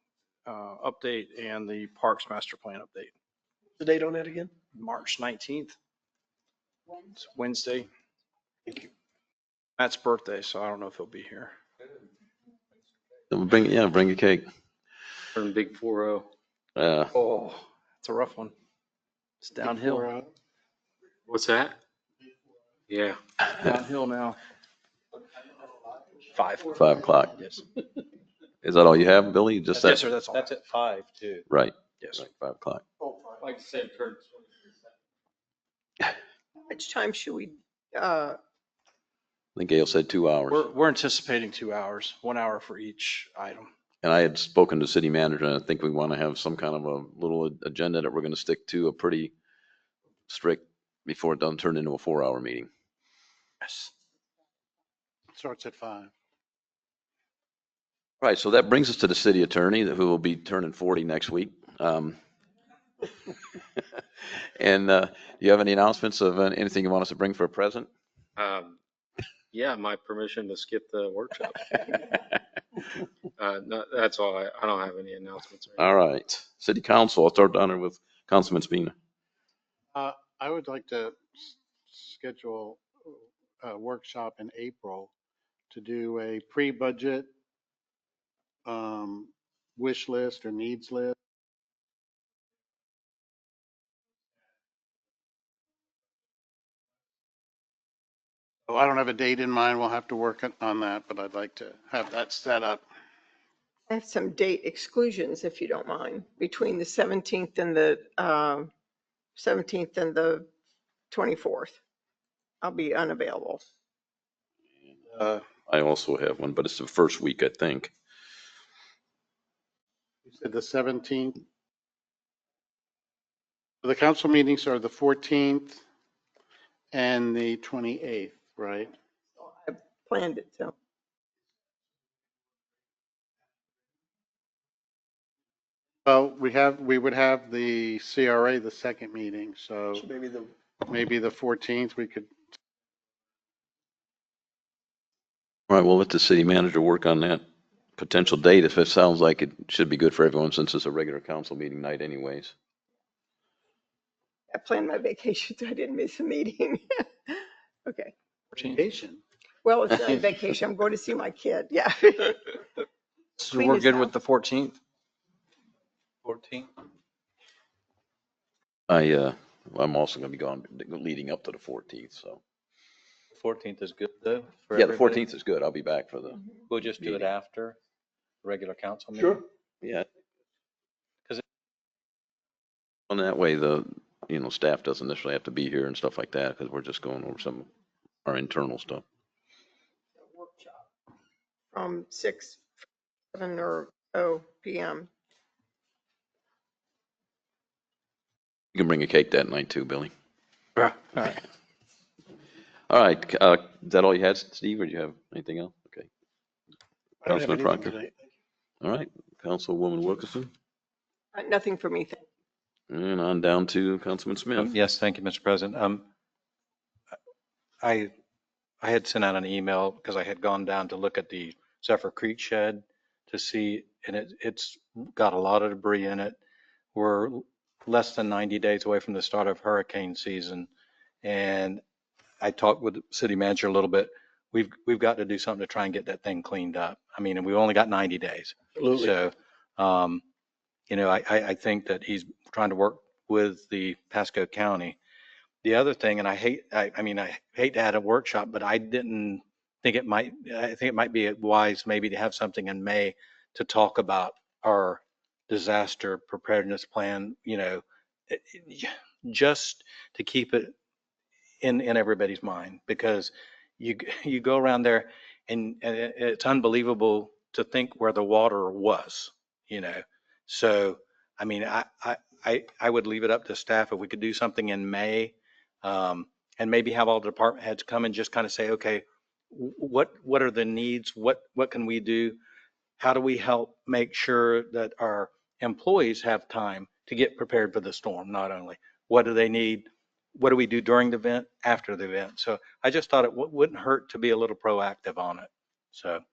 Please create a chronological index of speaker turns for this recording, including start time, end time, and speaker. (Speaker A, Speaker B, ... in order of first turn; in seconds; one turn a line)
Speaker A: 0.5-3.1
Speaker B: 3.8-4.5
Speaker A: 4.7-5.8
Speaker A: 7.1-7.9
Speaker A: 9.8-11.5
Speaker C: 13.3-14.4
Speaker D: 15.4-16.2
Speaker C: 16.8-17.1
Speaker A: 17.1-18.5
Speaker A: 19.4-20.1
Speaker E: 19.6-20.3
Speaker D: 21.3-21.7
Speaker D: 22.9-23.2
Speaker A: 23.5-24.4
Speaker A: 26.3-27.6
Speaker C: 26.7-27.3
Speaker C: 28.6-30.1
Speaker F: 29.8-31.4
Speaker A: 29.8-30.5
Speaker C: 31.5-32.8
Speaker D: 33.4-34.2
Speaker G: 36.7-38.4
Speaker C: 39.5-40.7
Speaker A: 40.5-43.7
Speaker C: 44.0-49.3
Speaker C: 50.3-52.7
Speaker A: 53.6-53.9
Speaker E: 55.3-56.1
Speaker C: 58.2-62.2
Speaker C: 64.6-67.9
Speaker D: 68.4-68.8
Speaker D: 69.5-71.9
Speaker D: 73.4-75.8
Speaker C: 75.8-78.9
Speaker E: 79.9-85.1
Speaker E: 85.7-87.3
Speaker E: 88.7-91.1
Speaker E: 98.7-102.8
Speaker G: 103.9-108.7
Speaker G: 109.3-110.5
Speaker G: 111.1-111.8
Speaker G: 112.6-113.6
Speaker E: 115.1-115.4
Speaker C: 115.7-117.9
Speaker E: 120.2-121.4
Speaker E: 123.8-125.8
Speaker E: 126.9-128.9
Speaker G: 129.4-130.7
Speaker E: 136.1-140.1
Speaker B: 139.9-140.5
Speaker E: 140.9-142.3
Speaker C: 145.7-147.4
Speaker C: 148.0-152.5
Speaker G: 154.5-158.1
Speaker E: 158.6-159.2
Speaker G: 159.6-162.6
Speaker A: 163.4-164.8
Speaker G: 163.4-164.1
Speaker F: 166.2-166.7
Speaker C: 168.9-172.4
Speaker F: 173.3-175.2
Speaker C: 174.7-177.3
Speaker F: 176.7-177.8
Speaker F: 178.4-179.4
Speaker B: 179.1-179.4
Speaker C: 179.8-180.1
Speaker C: 183.1-187.7
Speaker C: 188.2-189.0
Speaker G: 190.2-190.8
Speaker G: 191.7-192.6
Speaker G: 193.3-195.1
Speaker C: 198.7-200.1
Speaker F: 200.8-201.1
Speaker C: 202.9-206.1
Speaker C: 207.2-207.9
Speaker E: 207.2-208.1
Speaker C: 208.8-210.5
Speaker G: 211.3-212.2
Speaker C: 212.9-214.7
Speaker F: 214.6-216.1
Speaker F: 217.8-218.1
Speaker F: 218.8-226.4
Speaker F: 226.9-230.7
Speaker F: 231.2-231.8
Speaker F: 232.4-240.2
Speaker B: 238.8-239.1
Speaker F: 240.9-245.0
Speaker F: 245.6-260.7
Speaker F: 261.6-282.4
Speaker F: 283.0-296.2